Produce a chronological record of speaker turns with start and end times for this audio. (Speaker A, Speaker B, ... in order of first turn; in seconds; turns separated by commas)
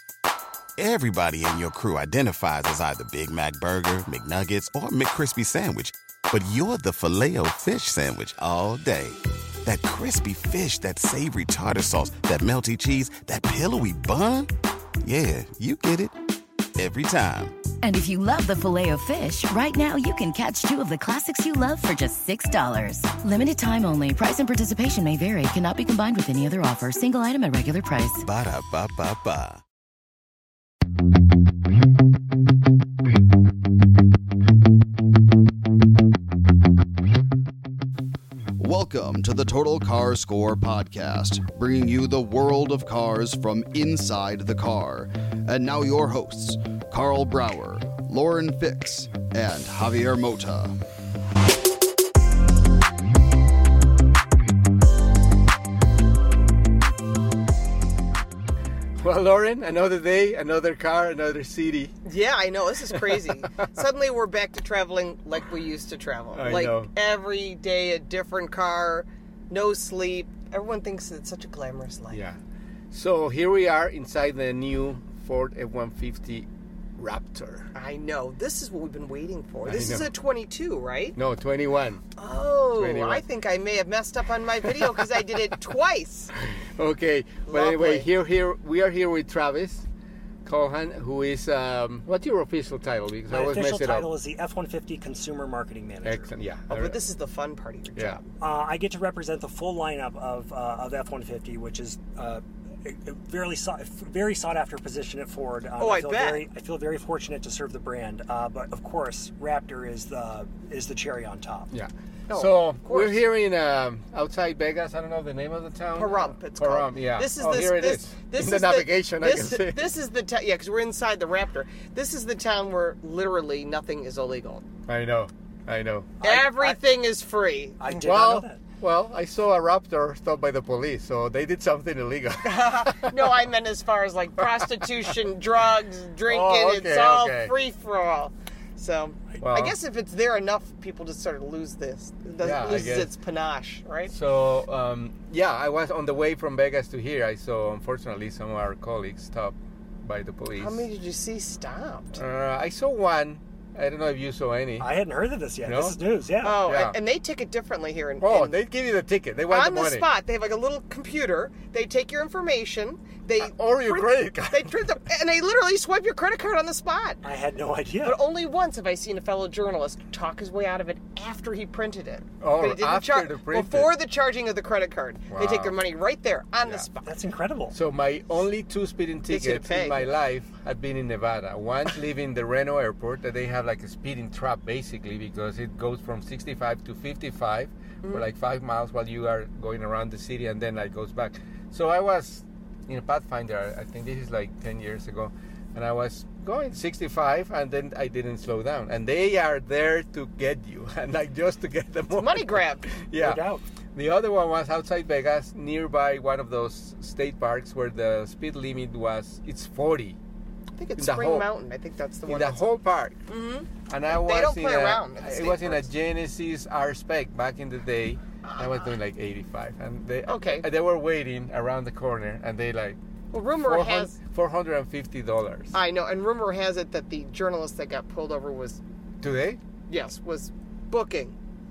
Speaker A: 0.8-5.9, Speaker B: 1.5-9.0, Speaker A: 7.1-9.2, Speaker B: 9.7-14.3, Speaker A: 9.7-14.5, Speaker A: 15.1-16.2, Speaker B: 15.1-15.8, Speaker A: 16.8-17.5, Speaker B: 16.8-17.5, Speaker C: 17.9-28.2, Speaker A: 28.2-29.6, Speaker B: 28.4-29.5, Speaker A: 38.6-50.8, Speaker D: 59.0-62.0, Speaker E: 62.0-72.2, Speaker D: 62.9-63.2, Speaker D: 66.3-66.9, Speaker D: 72.1-72.4, Speaker D: 72.9-77.7, Speaker E: 77.7-81.2, Speaker D: 79.6-80.1, Speaker D: 81.2-82.0, Speaker E: 82.2-86.3, Speaker D: 82.7-83.2, Speaker D: 84.6-85.0, Speaker D: 86.3-89.9, Speaker E: 87.5-88.1, Speaker D: 90.5-94.1, Speaker F: 93.3-96.3, Speaker D: 96.0-97.0, Speaker E: 96.7-98.3, Speaker D: 98.0-98.2, Speaker F: 98.4-111.7, Speaker E: 105.8-106.5, Speaker D: 111.7-120.0, Speaker E: 112.3-113.2, Speaker E: 116.0-124.7, Speaker D: 124.9-126.2, Speaker F: 126.2-126.8, Speaker E: 126.2-128.1, Speaker F: 127.8-128.6, Speaker D: 127.9-133.4, Speaker E: 132.4-144.1, Speaker D: 134.4-135.0, Speaker D: 136.2-137.6, Speaker D: 139.4-139.8, Speaker D: 142.4-143.2, Speaker D: 144.1-150.9, Speaker E: 150.6-152.2, Speaker D: 152.1-154.9, Speaker F: 154.8-156.6, Speaker D: 155.6-156.0, Speaker E: 156.4-158.6, Speaker D: 156.6-157.0, Speaker D: 158.2-160.1, Speaker E: 159.5-167.2, Speaker D: 163.4-164.8, Speaker F: 167.2-168.3, Speaker E: 168.0-177.1, Speaker D: 172.4-174.0, Speaker D: 175.3-175.8, Speaker D: 176.6-176.9, Speaker F: 177.0-177.8, Speaker D: 177.7-203.4, Speaker E: 179.3-180.0, Speaker E: 202.2-202.9, Speaker F: 203.1-203.7, Speaker D: 203.9-210.2, Speaker E: 210.8-212.7, Speaker D: 211.0-211.5, Speaker D: 212.3-213.2, Speaker E: 213.3-215.8, Speaker D: 213.9-223.0, Speaker E: 220.2-220.7, Speaker E: 223.3-224.2, Speaker D: 223.6-225.8, Speaker E: 225.7-228.8, Speaker D: 229.2-229.6, Speaker E: 229.9-231.4